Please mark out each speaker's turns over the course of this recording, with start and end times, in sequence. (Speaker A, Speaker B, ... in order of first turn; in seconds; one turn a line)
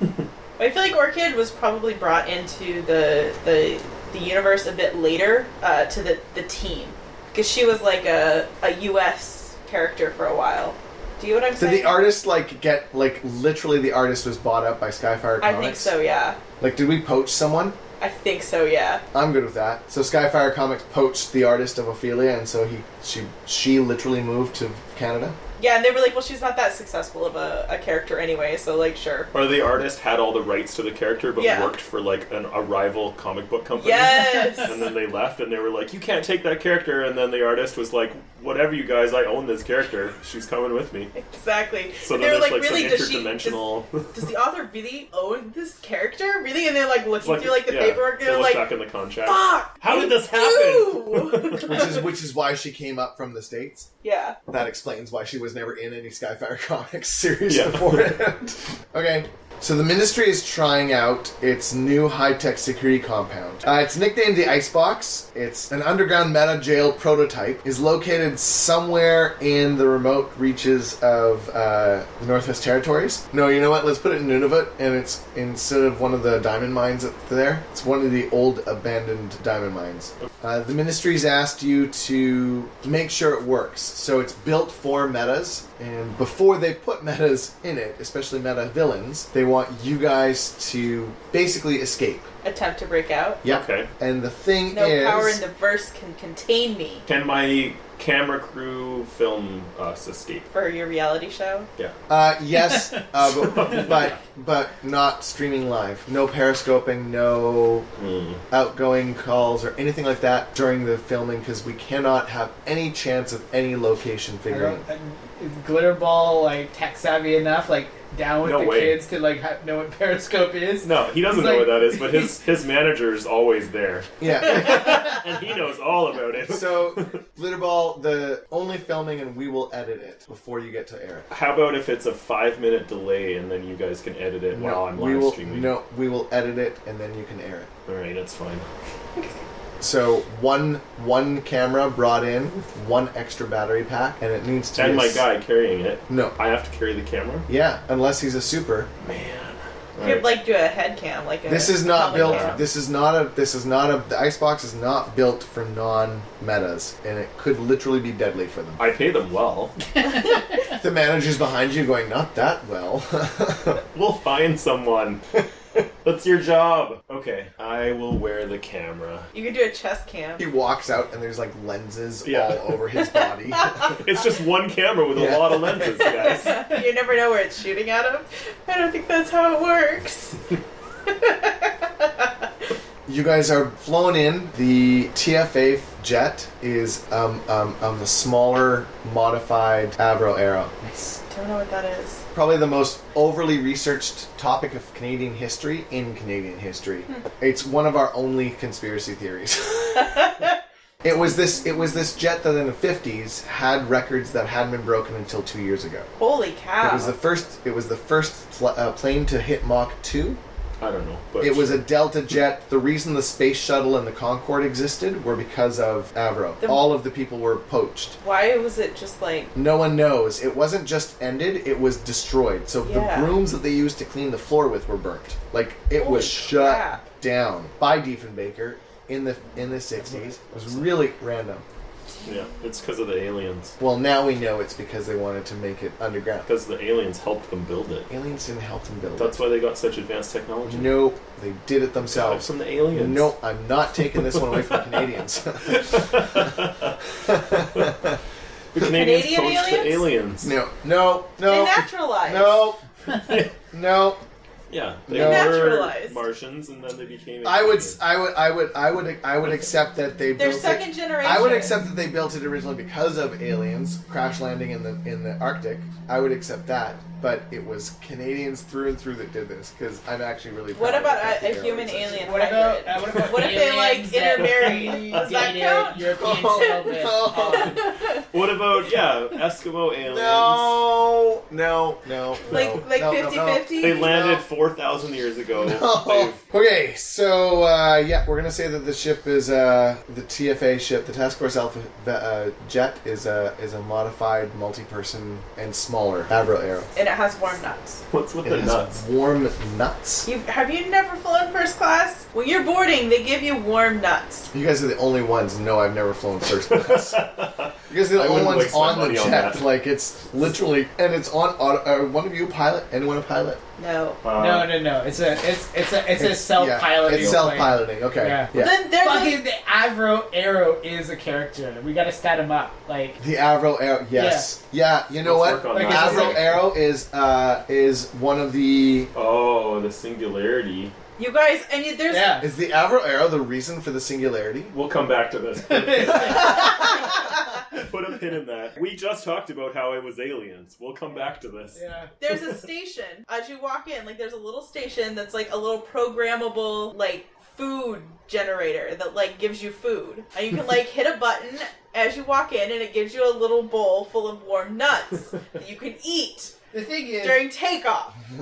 Speaker A: 0.6-12.0
Speaker B: 11.6-15.9
Speaker A: 15.4-16.4
Speaker B: 16.6-17.8
Speaker A: 18.0-19.0
Speaker B: 19.1-25.4
Speaker A: 25.6-29.3
Speaker C: 29.3-41.1
Speaker A: 31.4-31.7
Speaker A: 33.7-34.9
Speaker A: 41.1-43.6
Speaker C: 42.0-44.1
Speaker A: 44.1-48.7
Speaker C: 47.2-51.9
Speaker A: 49.2-52.0
Speaker B: 51.6-53.9
Speaker A: 54.0-54.4
Speaker B: 54.5-92.3
Speaker C: 57.5-58.2
Speaker A: 92.4-93.4
Speaker B: 93.4-95.4
Speaker C: 93.5-93.9
Speaker A: 94.7-97.1
Speaker C: 97.1-100.5
Speaker A: 100.5-101.7
Speaker B: 102.1-107.9
Speaker C: 108.0-108.4
Speaker B: 108.5-114.8
Speaker D: 114.5-122.4
Speaker C: 118.4-119.0
Speaker C: 120.8-127.2
Speaker B: 124.2-125.2
Speaker B: 126.4-131.3
Speaker C: 131.3-135.7
Speaker B: 134.5-137.7
Speaker C: 137.9-138.7
Speaker B: 139.8-145.2
Speaker C: 144.8-147.5
Speaker B: 146.1-146.4
Speaker B: 147.5-148.9
Speaker C: 149.0-150.3
Speaker A: 150.0-152.6
Speaker B: 151.5-158.8
Speaker C: 152.1-152.6
Speaker C: 158.8-159.8
Speaker B: 160.7-163.8
Speaker C: 163.9-165.2
Speaker C: 166.0-169.3
Speaker A: 169.3-170.4
Speaker B: 170.4-173.9
Speaker C: 172.2-172.6
Speaker A: 173.0-173.9
Speaker C: 173.9-176.7
Speaker B: 175.1-176.0
Speaker A: 176.0-180.4
Speaker A: 181.1-182.3
Speaker B: 183.1-190.9
Speaker A: 191.3-192.2
Speaker B: 192.3-200.3
Speaker B: 201.0-206.1
Speaker A: 206.2-207.2
Speaker B: 206.8-210.4
Speaker C: 210.8-211.9
Speaker B: 211.4-218.2
Speaker A: 216.6-216.9
Speaker A: 218.2-219.5
Speaker B: 219.6-231.6
Speaker A: 222.8-223.3
Speaker A: 226.0-227.1
Speaker D: 229.9-231.0
Speaker A: 232.2-232.6
Speaker C: 232.2-233.8
Speaker B: 233.8-236.5
Speaker C: 236.5-238.1
Speaker B: 238.1-239.3
Speaker C: 239.2-241.0
Speaker B: 240.7-246.5
Speaker C: 242.0-243.3
Speaker C: 244.2-244.8
Speaker C: 245.7-247.0
Speaker B: 247.2-248.2
Speaker C: 248.7-250.5
Speaker A: 248.8-250.1
Speaker B: 250.4-252.8
Speaker A: 251.4-252.7
Speaker C: 253.1-253.5
Speaker B: 253.7-254.2
Speaker C: 254.7-258.0
Speaker B: 255.1-255.8
Speaker A: 255.1-256.2
Speaker B: 257.4-272.4
Speaker C: 259.4-259.7
Speaker A: 260.4-261.8
Speaker A: 270.8-278.2
Speaker D: 272.2-277.9
Speaker C: 274.8-275.3
Speaker B: 275.9-277.8
Speaker C: 278.3-280.8
Speaker B: 280.0-284.4
Speaker A: 282.4-284.1
Speaker C: 283.8-286.4
Speaker B: 285.6-296.9
Speaker A: 297.0-298.0
Speaker C: 298.1-299.0
Speaker B: 298.4-300.3
Speaker A: 300.2-304.5
Speaker B: 304.5-307.2
Speaker C: 306.7-309.7
Speaker B: 307.9-313.6
Speaker A: 313.8-314.2
Speaker C: 314.2-314.8
Speaker D: 314.4-323.2
Speaker B: 316.2-318.8
Speaker C: 317.0-317.5
Speaker A: 318.5-319.4
Speaker B: 323.2-329.1
Speaker D: 324.1-324.5
Speaker C: 325.2-326.7
Speaker D: 325.7-326.5
Speaker C: 329.1-330.9
Speaker A: 331.2-332.4
Speaker D: 332.1-332.5
Speaker B: 332.4-334.7
Speaker C: 334.7-336.9
Speaker D: 335.7-336.7
Speaker A: 336.5-337.2
Speaker C: 337.7-341.8
Speaker D: 341.1-342.1
Speaker A: 342.2-356.5
Speaker D: 356.7-357.5
Speaker A: 357.2-358.2